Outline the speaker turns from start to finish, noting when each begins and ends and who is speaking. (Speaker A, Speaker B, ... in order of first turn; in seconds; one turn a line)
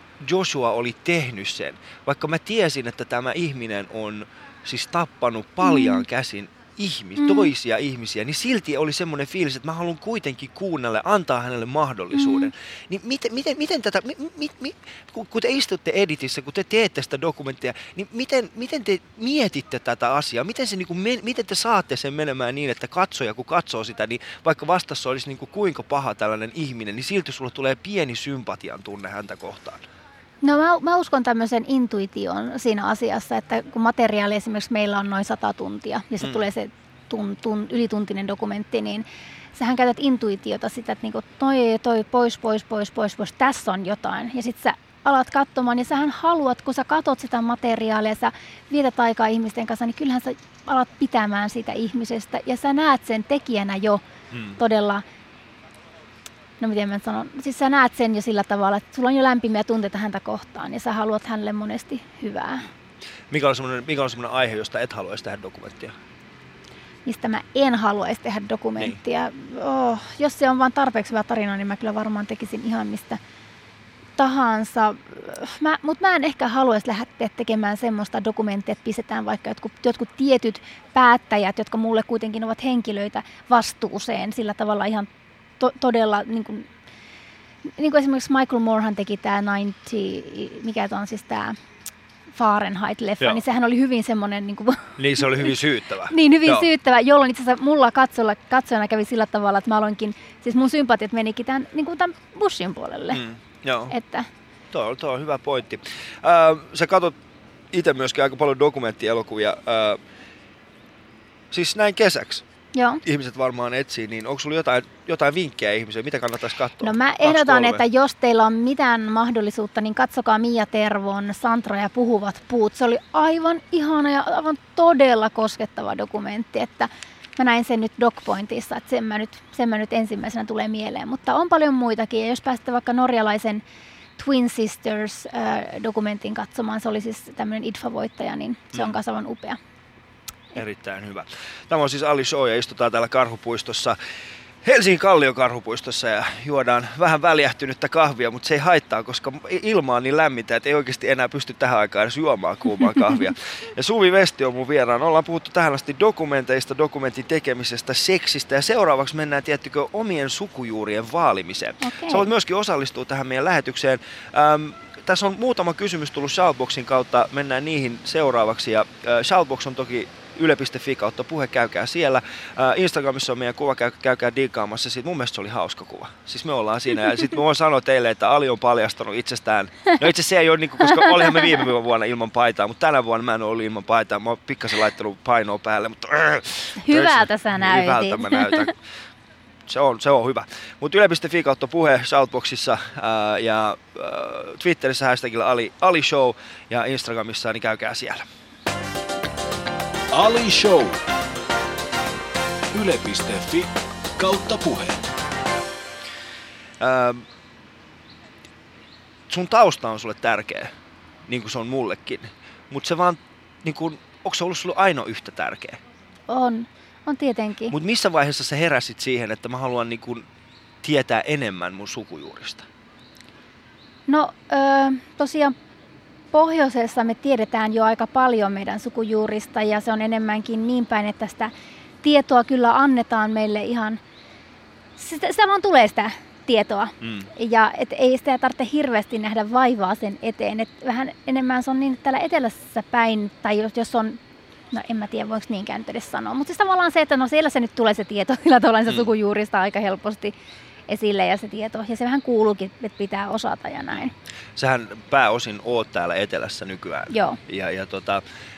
Speaker A: 0.2-29.9
Speaker B: 5.6-6.0
Speaker B: 7.2-7.5
Speaker B: 12.1-12.5
Speaker B: 30.4-54.0
Speaker A: 54.3-54.6
Speaker B: 54.6-55.0
Speaker B: 56.6-62.7
Speaker A: 63.3-66.0
Speaker B: 67.1-73.2
Speaker B: 74.2-85.1
Speaker B: 85.6-86.7
Speaker B: 87.8-91.6
Speaker B: 92.3-95.5
Speaker A: 95.0-96.7
Speaker B: 96.1-103.2
Speaker A: 103.1-103.9
Speaker B: 103.9-104.3
Speaker A: 104.7-107.2
Speaker A: 107.7-110.0
Speaker A: 111.5-112.4
Speaker B: 112.7-113.0
Speaker A: 113.0-117.8
Speaker B: 116.8-133.6
Speaker B: 134.2-139.6
Speaker A: 140.6-144.0
Speaker A: 144.6-188.8
Speaker B: 161.8-162.3
Speaker B: 180.8-181.6
Speaker B: 186.8-188.7
Speaker A: 189.7-198.3
Speaker C: 200.1-201.0
Speaker C: 202.7-205.0
Speaker A: 206.8-207.2
Speaker A: 209.3-210.7
Speaker A: 211.3-215.8
Speaker B: 216.3-217.8
Speaker A: 217.7-220.3
Speaker A: 220.8-222.7
Speaker B: 224.1-225.5
Speaker B: 226.3-231.5
Speaker B: 232.0-234.0
Speaker B: 235.0-244.2
Speaker A: 237.0-237.3
Speaker B: 244.7-250.3
Speaker B: 250.9-254.1
Speaker A: 254.6-258.2
Speaker B: 257.1-257.4